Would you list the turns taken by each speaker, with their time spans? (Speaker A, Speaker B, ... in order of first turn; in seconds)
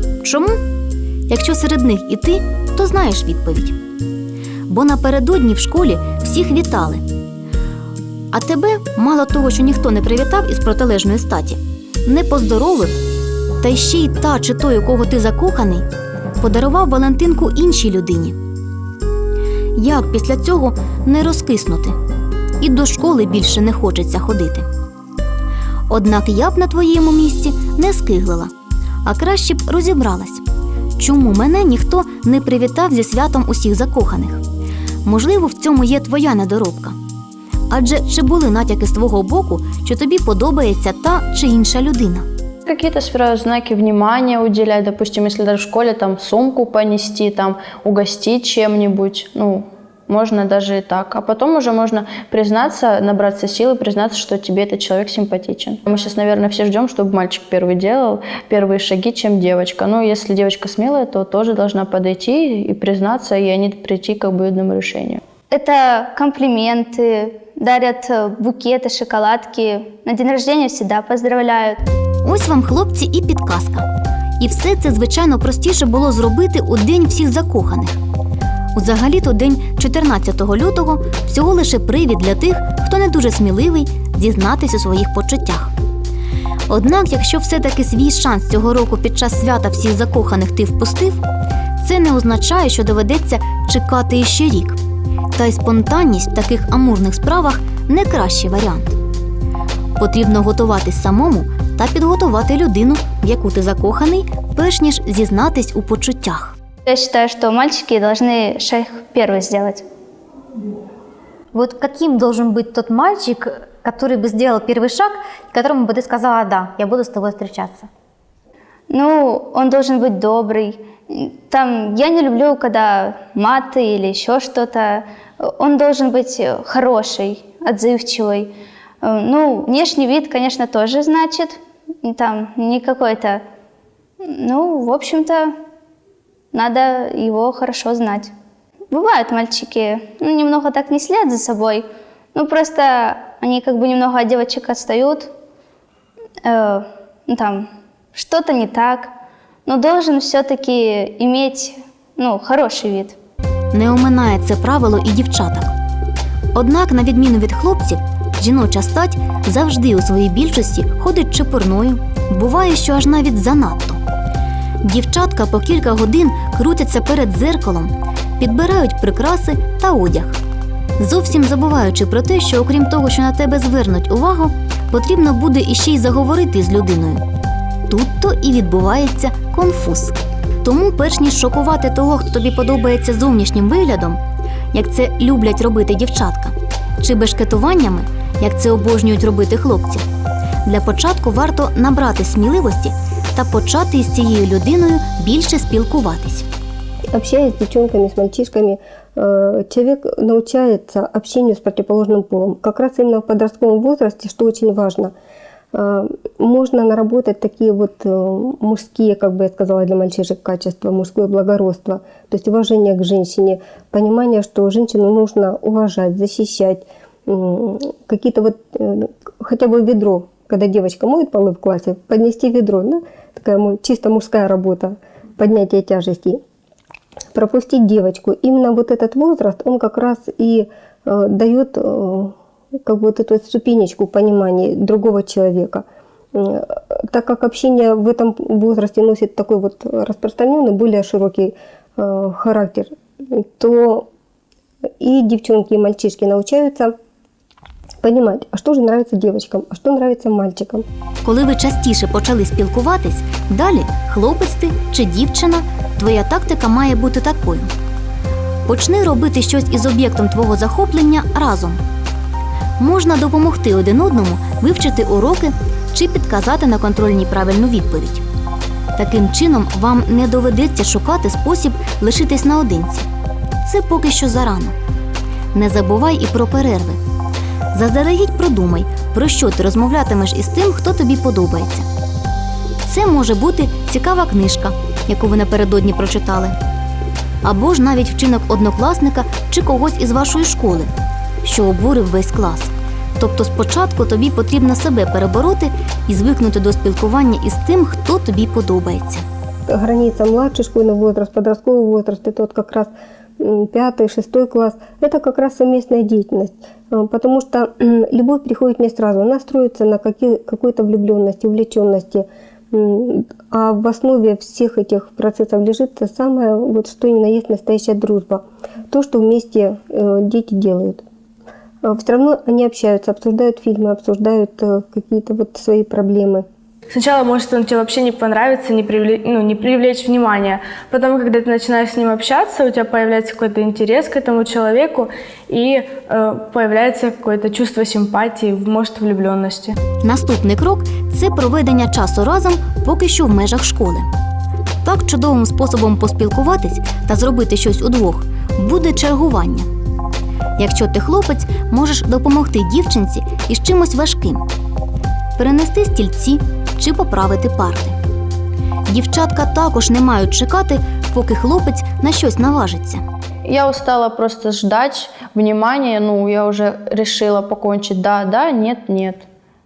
Speaker A: 0.2-0.6, 1.3-3.8, 4.7-7.0, 8.3-13.0, 13.6-15.8, 16.4-18.4, 19.8-21.9, 22.6-24.6, 25.9-28.5, 29.0-30.4, 30.9-34.4, 35.0-37.0, 37.7-42.2, 72.2-73.9, 74.4-78.0, 78.7-85.7, 86.7-91.2, 91.8-94.8, 95.3-99.0, 100.0-106.5, 153.7-155.7, 156.5-164.0, 164.8-170.4, 171.0-177.2, 177.9-184.2, 184.7-190.0, 190.6-196.4, 251.2-257.7, 258.6-261.8, 262.8-268.2, 268.9-273.1, 273.6-274.8, 275.5-277.0, 277.7-281.9, 282.8-286.6, 287.4-290.9, 291.4-299.2, 340.0-344.1, 344.8-349.7, 350.6-354.4, 355.4-357.9, 358.9-363.0
Speaker B: 42.7-65.2, 363.4-369.2
Speaker C: 65.5-71.8, 106.8-109.8, 118.9-128.5, 129.0-133.4, 134.2-135.5, 136.5-138.3, 138.9-145.3, 146.4-149.1, 149.7-153.2
Speaker D: 111.5-117.9
Speaker E: 197.1-205.1, 205.7-226.4, 227.3-232.3, 232.8-244.1, 245.0-246.9, 248.0-250.8, 299.7-321.0, 321.8-326.4
Speaker F: 326.9-339.8